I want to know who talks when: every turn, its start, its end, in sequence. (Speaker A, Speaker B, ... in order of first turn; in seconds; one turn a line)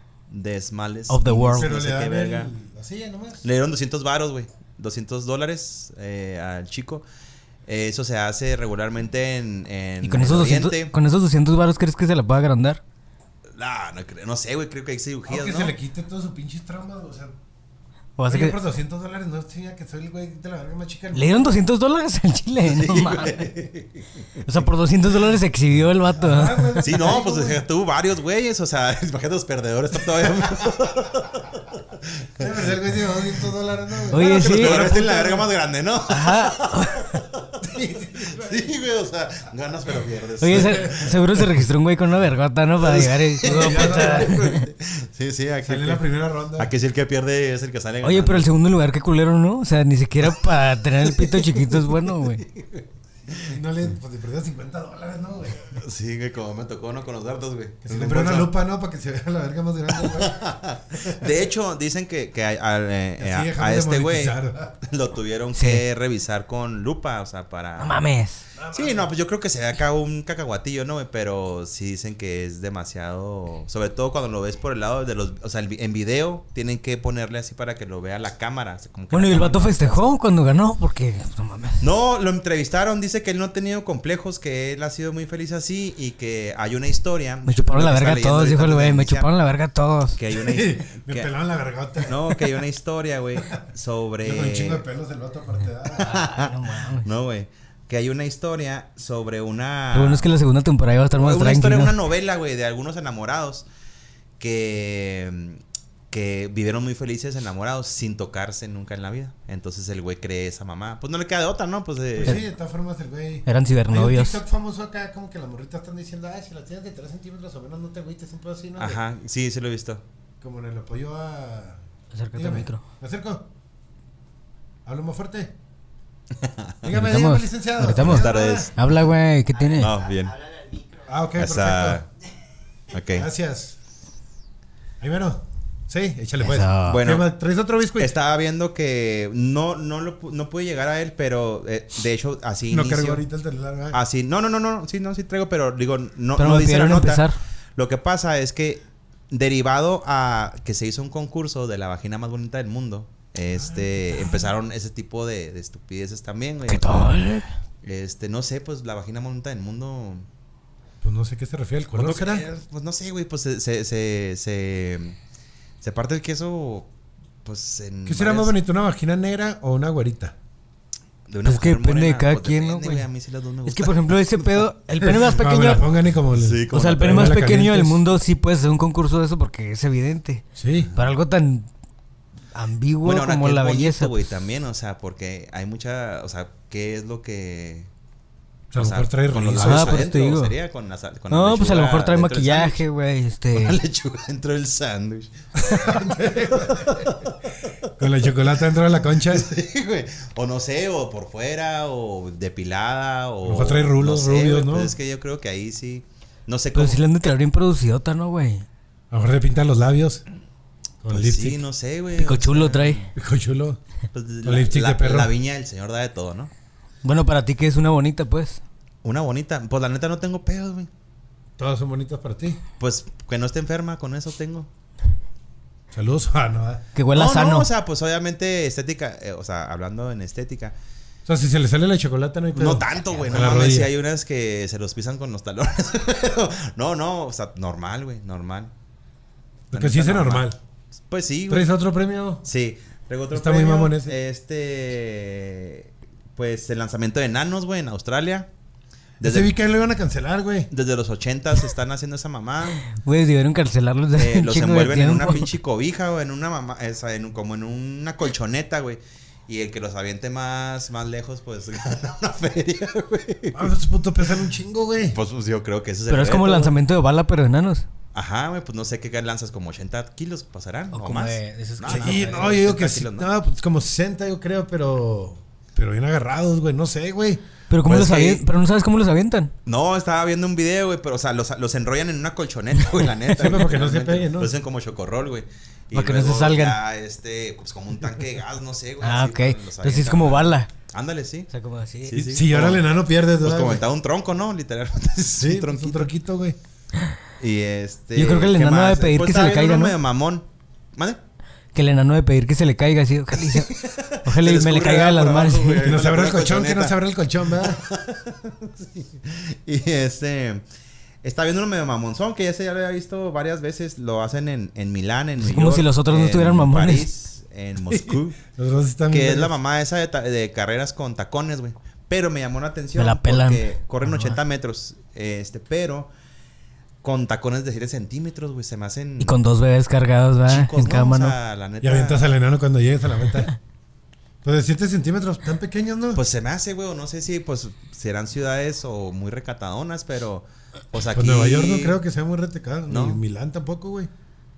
Speaker A: 0.3-2.5
Speaker B: 1.1-1.7
Speaker C: 1.5-3.5
Speaker A: 3.4-7.0
Speaker A: 7.7-10.9
Speaker B: 10.0-12.8
Speaker A: 13.5-15.8
Speaker C: 15.3-17.3
Speaker B: 18.2-18.6
Speaker C: 18.3-21.6
Speaker B: 21.1-23.5
Speaker A: 22.6-24.6
Speaker B: 24.4-26.8
Speaker C: 26.2-27.6
Speaker A: 26.8-32.8
Speaker C: 32.4-35.5
Speaker A: 34.0-37.6
Speaker B: 34.1-34.9
Speaker B: 36.1-37.2
Speaker C: 37.6-38.6
Speaker A: 38.3-41.5
Speaker B: 40.4-44.6
Speaker A: 42.8-48.5
Speaker C: 43.4-44.4
Speaker C: 45.6-46.7
Speaker B: 48.0-52.5
Speaker A: 51.2-51.9
Speaker A: 52.5-52.8
Speaker C: 53.5-55.8
Speaker A: 55.7-58.5
Speaker C: 57.9-61.3
Speaker A: 60.0-68.0
Speaker C: 63.2-64.8
Speaker B: 65.5-65.8
Speaker B: 67.8-68.5
Speaker C: 68.6-69.1
Speaker A: 68.7-80.1
Speaker B: 79.1-81.9
Speaker A: 81.8-89.3
Speaker B: 87.5-90.2
Speaker A: 90.2-91.3
Speaker C: 90.3-92.5
Speaker A: 92.0-94.8
Speaker C: 94.2-96.2
Speaker B: 96.0-97.1
Speaker A: 96.0-100.3
Speaker B: 99.9-102.0
Speaker A: 101.1-103.7
Speaker A: 104.4-112.4
Speaker C: 112.2-119.0
Speaker B: 113.5-114.4
Speaker A: 118.8-120.0
Speaker C: 120.4-121.8
Speaker B: 122.1-122.8
Speaker C: 122.3-123.5
Speaker C: 124.8-125.5
Speaker A: 126.4-126.8
Speaker C: 126.8-128.7
Speaker B: 126.9-129.9
Speaker A: 128.0-128.7
Speaker A: 129.7-130.8
Speaker C: 131.1-132.0
Speaker A: 131.4-132.1
Speaker A: 132.9-133.3
Speaker C: 133.1-133.8
Speaker C: 135.0-138.2
Speaker B: 136.4-137.0
Speaker A: 136.9-137.3
Speaker A: 138.0-143.3
Speaker C: 142.7-144.0
Speaker A: 143.9-157.2
Speaker B: 146.4-147.4
Speaker C: 153.5-154.5
Speaker B: 156.7-157.5
Speaker A: 157.8-160.3
Speaker C: 161.0-162.5
Speaker A: 161.9-165.2
Speaker A: 165.8-166.9
Speaker A: 167.4-168.5
Speaker C: 168.1-170.3
Speaker A: 171.3-174.5
Speaker B: 171.4-173.1
Speaker B: 173.7-175.8
Speaker C: 175.0-178.0
Speaker A: 176.3-177.4
Speaker B: 176.7-181.7
Speaker C: 180.6-180.9
Speaker A: 180.8-181.1
Speaker B: 182.5-184.1
Speaker A: 183.0-187.9
Speaker C: 188.7-190.1
Speaker A: 188.8-192.8
Speaker B: 189.6-190.6
Speaker B: 191.3-193.8
Speaker A: 193.5-197.4
Speaker C: 195.7-197.1
Speaker C: 198.0-199.5
Speaker A: 199.2-207.0
Speaker C: 203.4-204.9
Speaker B: 206.7-208.7
Speaker C: 209.1-210.2
Speaker C: 211.0-211.6
Speaker A: 211.1-213.1
Speaker B: 212.2-213.0
Speaker C: 213.2-213.8
Speaker A: 214.1-216.5
Speaker C: 214.4-215.3
Speaker B: 217.0-218.6
Speaker A: 219.0-220.9
Speaker C: 221.6-222.6
Speaker A: 222.8-224.7
Speaker C: 225.9-226.8
Speaker B: 226.9-227.7
Speaker A: 227.1-230.8
Speaker C: 231.3-233.9
Speaker A: 232.6-238.7
Speaker A: 239.7-240.5
Speaker C: 239.7-240.6
Speaker A: 241.1-241.7
Speaker C: 241.5-242.4
Speaker A: 242.4-248.5
Speaker C: 243.3-244.2
Speaker A: 249.2-249.5
Speaker C: 249.2-250.7
Speaker A: 250.7-252.8
Speaker B: 252.8-255.5
Speaker A: 254.2-263.7
Speaker C: 263.5-265.2
Speaker A: 265.0-266.8
Speaker B: 266.1-267.9
Speaker A: 268.1-273.3
Speaker B: 270.9-272.5
Speaker C: 271.9-277.4
Speaker B: 277.7-279.5
Speaker A: 277.8-278.5
Speaker A: 279.7-291.5
Speaker C: 283.4-284.6
Speaker B: 285.9-286.8
Speaker B: 289.0-290.7
Speaker B: 291.5-292.3
Speaker A: 292.1-292.8
Speaker C: 292.2-293.8
Speaker A: 293.4-296.1
Speaker C: 295.4-296.6
Speaker A: 297.4-301.2
Speaker B: 298.2-299.9
Speaker B: 301.7-303.7
Speaker A: 303.4-307.0
Speaker B: 304.2-305.9
Speaker C: 305.8-307.8
Speaker A: 307.6-310.6
Speaker A: 311.2-318.4
Speaker B: 315.4-317.1
Speaker C: 317.9-319.6
Speaker A: 319.1-326.1
Speaker B: 323.0-324.4
Speaker A: 327.0-329.4
Speaker B: 329.2-331.4
Speaker A: 330.5-332.3
Speaker C: 331.8-333.5
Speaker C: 334.4-336.2
Speaker A: 336.1-342.0
Speaker C: 341.1-344.1
Speaker A: 342.9-343.2